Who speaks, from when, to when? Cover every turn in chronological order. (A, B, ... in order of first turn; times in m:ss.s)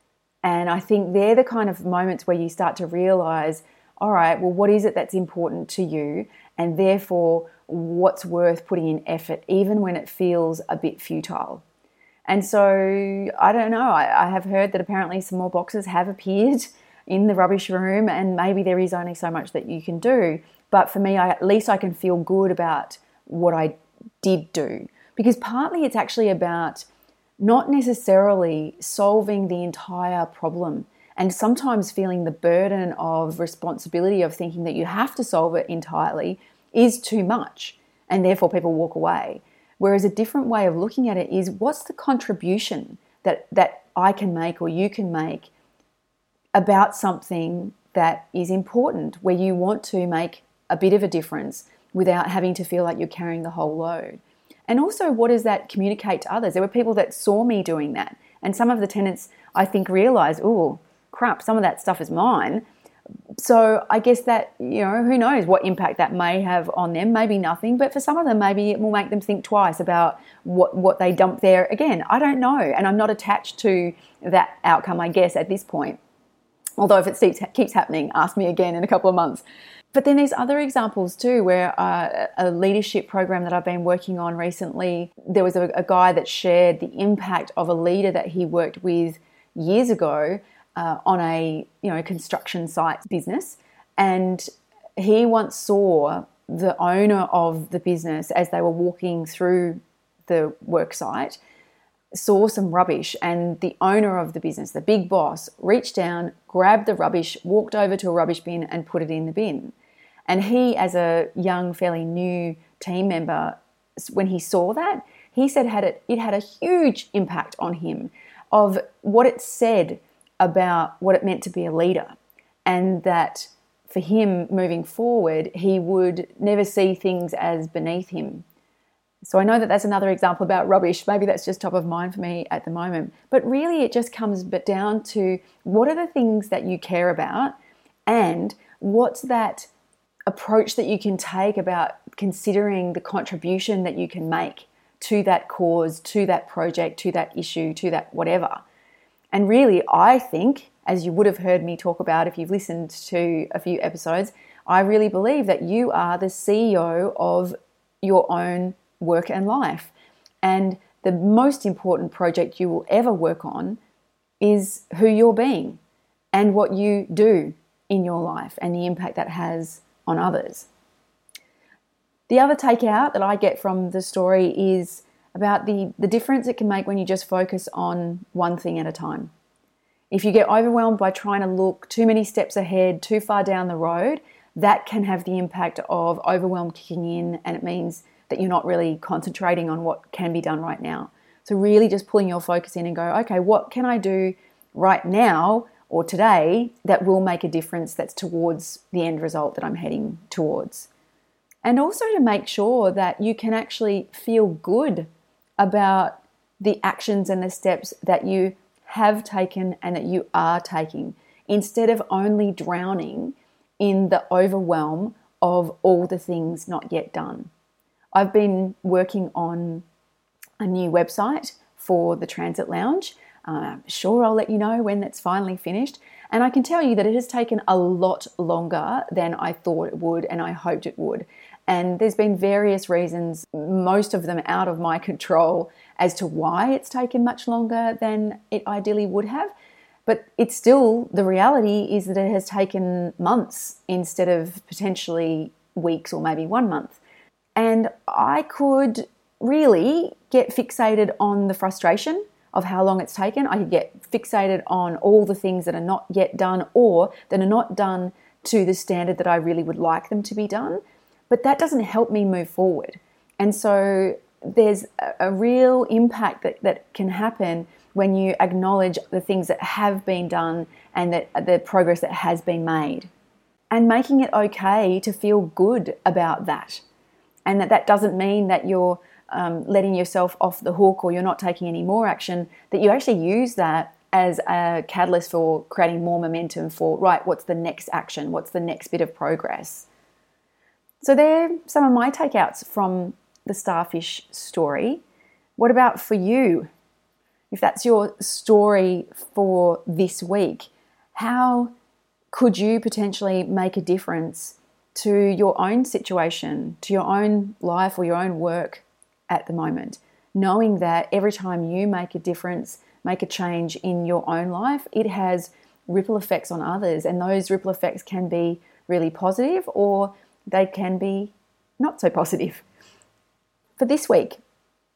0:00.4-0:11.6 A
0:12.3-0:26.8 A
0:27.4-0:45.5 A
0:46.5-1:02.6 A
1:03.4-1:16.0 A
1:16.8-1:41.4 A
1:42.1-1:49.7 A
1:50.3-2:08.4 A
2:09.2-2:17.5 A
2:18.1-2:19.7 A
2:20.3-2:28.6 A
2:29.3-2:39.9 A
2:40.4-2:43.8 A
2:44.4-2:45.8 A
2:46.3-2:50.7 A
2:52.3-2:59.3 A
3:00.1-3:20.9 A
3:21.6-3:25.1 A
3:25.6-3:37.5 A
3:38.1-3:39.8 A
3:40.6-3:59.5 A
4:00.0-4:07.0 A
4:07.6-4:33.1 A
4:33.7-4:36.8 A
4:37.4-4:49.9 A
4:51.0-4:55.0 A
4:55.6-4:56.7 A
4:57.5-5:01.7 A
5:02.3-5:22.6 A
5:23.8-5:24.4 A